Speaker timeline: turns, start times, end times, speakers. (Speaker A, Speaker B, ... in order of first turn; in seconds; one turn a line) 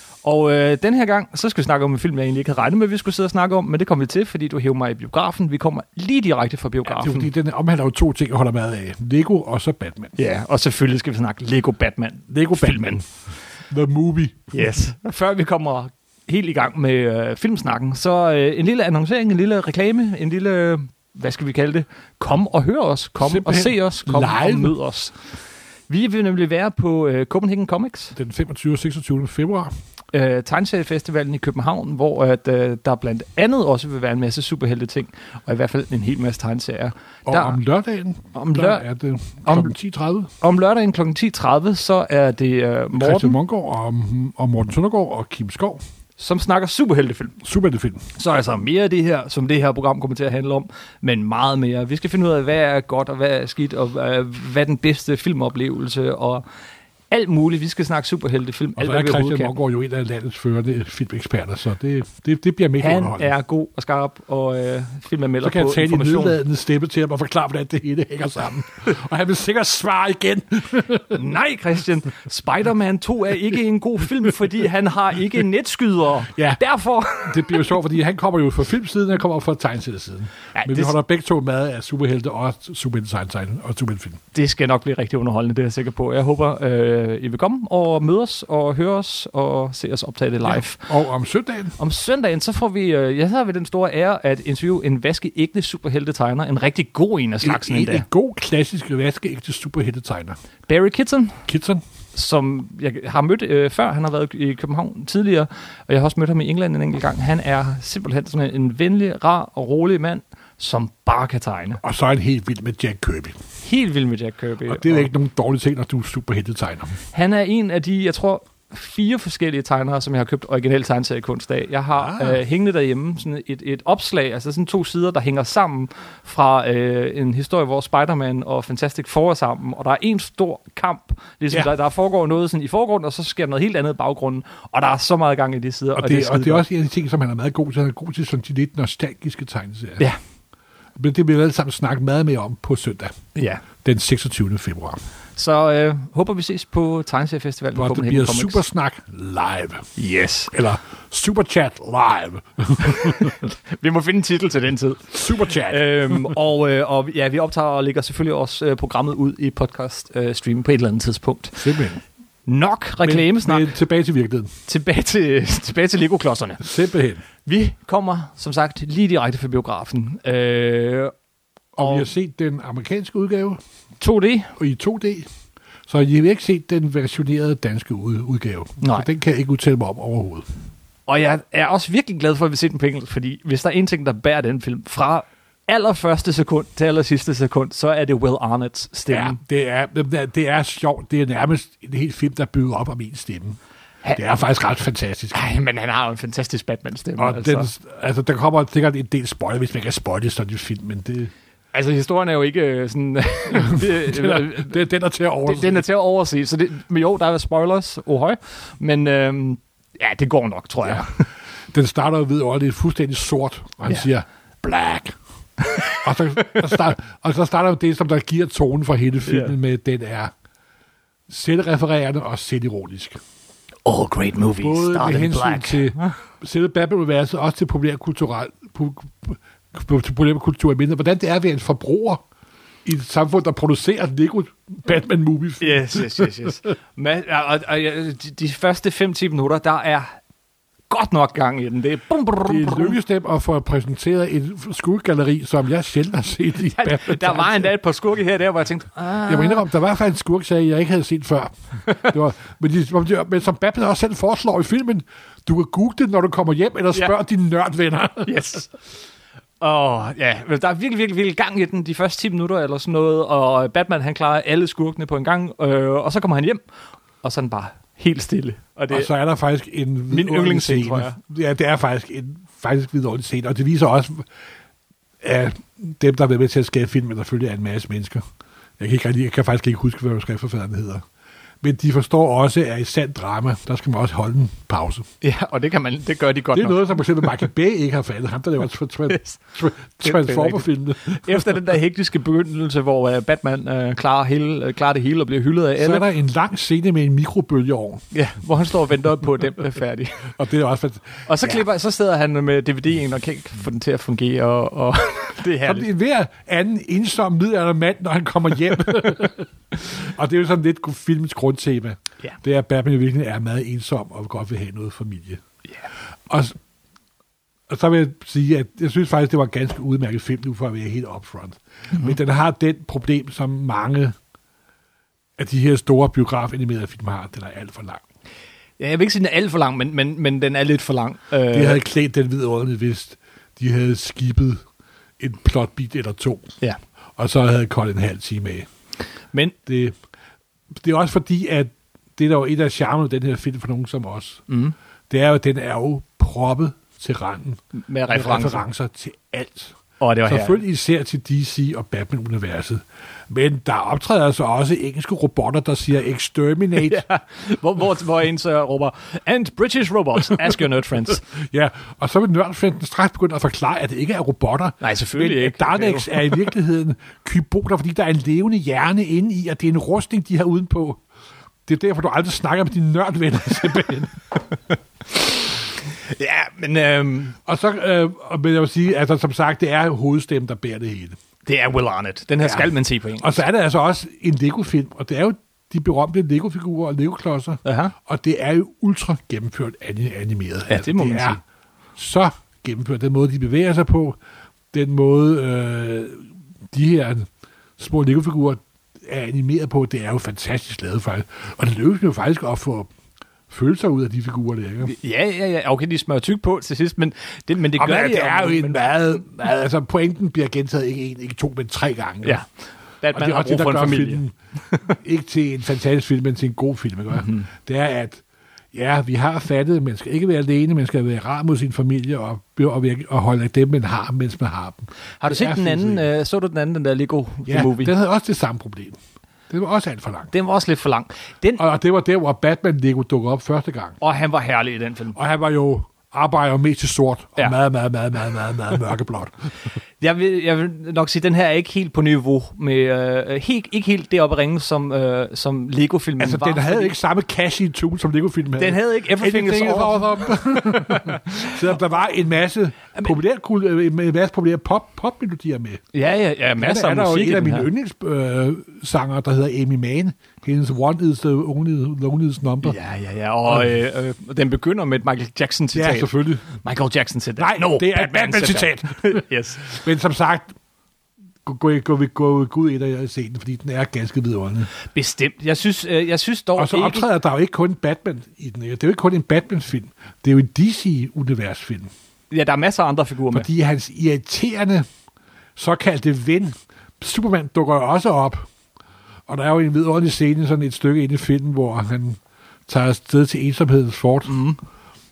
Speaker A: 0.2-7.3
Speaker B: 6.9-10.1
Speaker A: 10.2-13.1
Speaker B: 12.3-13.0
Speaker B: 13.7-14.5
Speaker A: 14.5-25.2
Speaker B: 23.2-24.8
Speaker A: 25.9-28.1
Speaker B: 28.1-29.7
Speaker A: 30.1-37.6
Speaker B: 37.2-40.3
Speaker A: 38.3-38.9
Speaker A: 39.5-39.7
Speaker A: 40.4-43.4
Speaker B: 42.9-45.8
Speaker A: 46.2-47.4
Speaker B: 47.4-48.0
Speaker A: 48.1-56.4
Speaker A: 57.1-59.5
Speaker B: 58.8-63.3
Speaker A: 62.8-66.4
Speaker B: 65.4-71.2
Speaker A: 71.1-77.7
Speaker B: 76.3-76.6
Speaker B: 77.2-84.2
Speaker A: 80.5-80.9
Speaker A: 84.3-90.8
Speaker B: 90.4-91.8
Speaker A: 91.8-98.0
Speaker B: 97.4-100.4
Speaker A: 100.7-101.4
Speaker B: 101.5-101.8
Speaker A: 102.1-111.8
Speaker B: 111.8-113.4
Speaker A: 113.6-115.1
Speaker B: 114.7-117.0
Speaker A: 117.1-136.7
Speaker B: 121.9-122.4
Speaker B: 135.9-140.1
Speaker B: 141.0-143.1
Speaker A: 143.3-143.7
Speaker B: 143.8-145.0
Speaker A: 145.3-148.6
Speaker B: 147.7-149.9
Speaker A: 150.0-150.5
Speaker B: 150.5-153.4
Speaker A: 153.0-161.7
Speaker B: 155.1-156.3
Speaker B: 161.6-162.0
Speaker A: 162.4-163.7
Speaker B: 163.0-164.5
Speaker A: 164.7-166.7
Speaker B: 166.6-167.2
Speaker A: 167.4-171.1
Speaker B: 171.7-173.6
Speaker A: 171.8-172.1
Speaker A: 174.0-174.5
Speaker B: 174.6-175.3
Speaker B: 175.9-180.5
Speaker A: 178.8-179.1
Speaker A: 181.1-189.4
Speaker B: 189.1-193.6
Speaker B: 194.1-195.4
Speaker A: 195.3-197.7
Speaker B: 197.2-201.3
Speaker A: 201.7-204.8
Speaker B: 203.5-205.8
Speaker A: 205.4-211.3
Speaker B: 211.7-215.1
Speaker A: 215.7-216.0
Speaker B: 215.9-220.3
Speaker A: 219.2-219.5
Speaker B: 221.3-223.2
Speaker A: 223.8-226.1
Speaker B: 224.6-232.2
Speaker B: 232.8-236.4
Speaker A: 235.6-240.1
Speaker A: 240.9-243.0
Speaker B: 242.4-247.7
Speaker A: 246.6-249.7
Speaker B: 249.2-258.4
Speaker A: 251.8-252.1
Speaker A: 258.2-258.7
Speaker A: 259.6-266.6
Speaker A: 267.2-269.1
Speaker B: 268.9-274.3
Speaker A: 270.1-271.2
Speaker B: 275.2-278.2
Speaker B: 278.8-281.0
Speaker B: 281.6-285.1
Speaker A: 285.2-287.4
Speaker B: 286.5-291.4
Speaker A: 289.1-289.4
Speaker A: 290.0-296.1
Speaker B: 295.8-298.0
Speaker A: 298.1-300.3
Speaker B: 300.3-301.6
Speaker A: 301.2-305.9
Speaker B: 305.6-315.4
Speaker B: 316.3-316.6
Speaker B: 317.7-324.1
Speaker B: 325.4-328.0
Speaker A: 328.8-331.8
Speaker B: 331.5-334.6
Speaker B: 335.2-336.5
Speaker B: 337.2-338.6
Speaker B: 339.6-339.9
Speaker B: 340.7-344.4
Speaker A: 344.5-344.7
Speaker B: 345.1-347.6
Speaker A: 347.8-348.6
Speaker B: 348.1-357.0
Speaker A: 350.0-350.6
Speaker A: 356.8-361.3
Speaker B: 361.3-371.0
Speaker A: 364.8-366.4
Speaker B: 371.6-374.2
Speaker A: 375.1-375.4
Speaker A: 376.0-377.4
Speaker B: 377.4-381.2
Speaker A: 381.4-383.4
Speaker B: 382.4-391.4
Speaker A: 387.6-387.9
Speaker A: 390.7-391.4
Speaker B: 392.0-394.2
Speaker B: 394.7-402.9
Speaker B: 403.5-404.9
Speaker A: 404.8-409.1
Speaker B: 407.7-412.4
Speaker A: 412.2-412.5
Speaker A: 413.0-414.9
Speaker B: 413.1-426.1
Speaker A: 417.1-417.5
Speaker A: 425.2-427.9
Speaker B: 427.5-429.0
Speaker B: 429.5-430.3
Speaker A: 430.3-431.6
Speaker B: 431.6-434.0
Speaker A: 434.0-435.2
Speaker B: 435.1-439.7
Speaker A: 440.0-446.9
Speaker B: 446.2-455.8
Speaker A: 448.6-451.5
Speaker A: 455.9-457.7
Speaker B: 456.6-462.8
Speaker A: 462.6-469.8
Speaker B: 465.7-466.5
Speaker B: 467.4-470.5
Speaker B: 471.4-474.7
Speaker A: 474.8-477.1
Speaker B: 476.6-481.9
Speaker A: 482.3-483.5
Speaker B: 483.3-484.9
Speaker B: 485.6-488.4
Speaker B: 489.3-494.4
Speaker A: 494.2-494.6